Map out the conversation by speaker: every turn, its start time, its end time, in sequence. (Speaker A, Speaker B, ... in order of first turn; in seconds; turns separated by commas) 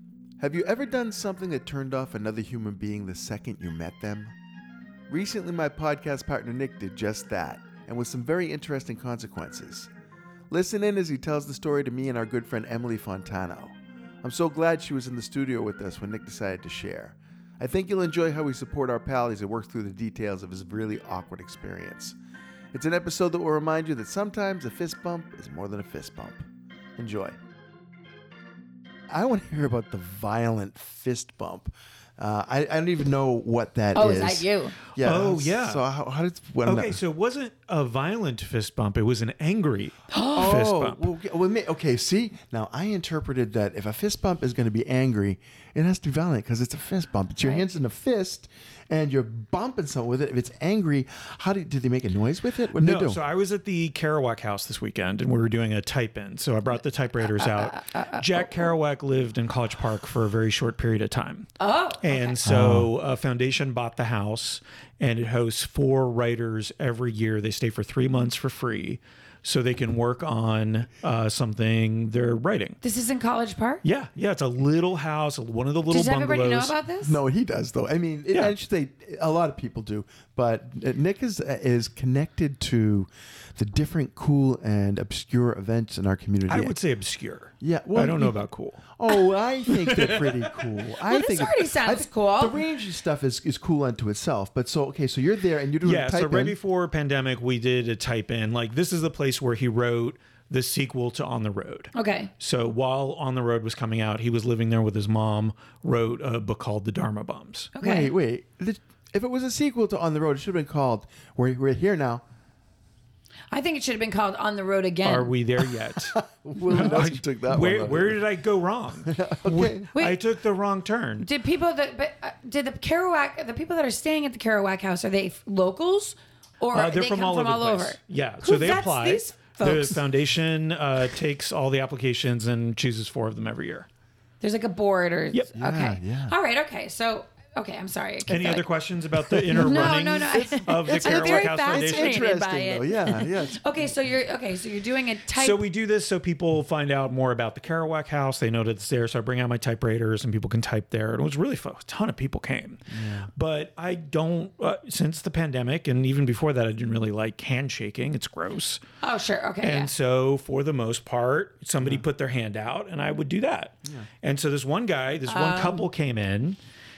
Speaker A: 0.4-4.3, Speaker A: 5.1-9.9, Speaker A: 10.5-22.2, Speaker A: 22.7-26.4, Speaker A: 27.0-27.3, Speaker A: 29.1-37.0, Speaker B: 33.9-34.8, Speaker C: 35.0-35.8, Speaker C: 36.6-41.1, Speaker B: 40.1-40.5, Speaker A: 40.3-53.2, Speaker B: 47.4-47.7, Speaker C: 52.7-61.5, Speaker B: 57.3-58.7, Speaker B: 61.6-62.4, Speaker C: 62.0-72.8, Speaker A: 62.4-62.9, Speaker B: 72.8-73.8, Speaker C: 73.8-76.7, Speaker B: 75.9-77.2, Speaker A: 77.0-86.8, Speaker C: 86.5-89.0, Speaker A: 87.6-96.6, Speaker C: 89.7-90.6, Speaker B: 91.0-92.6, Speaker C: 95.8-107.7, Speaker B: 101.9-102.3, Speaker B: 107.7-108.1, Speaker A: 107.8-112.2, Speaker B: 113.5-115.3, Speaker C: 115.0-121.3, Speaker A: 116.1-118.2, Speaker A: 119.0-119.9, Speaker B: 121.2-130.0, Speaker C: 126.7-133.9, Speaker B: 134.4-138.7, Speaker A: 135.5-136.3, Speaker C: 138.3-142.3, Speaker A: 139.5-144.1, Speaker B: 139.5-145.6, Speaker C: 145.3-158.8, Speaker A: 152.9-153.3, Speaker B: 159.0-159.9, Speaker C: 159.6-166.6, Speaker B: 165.2-165.9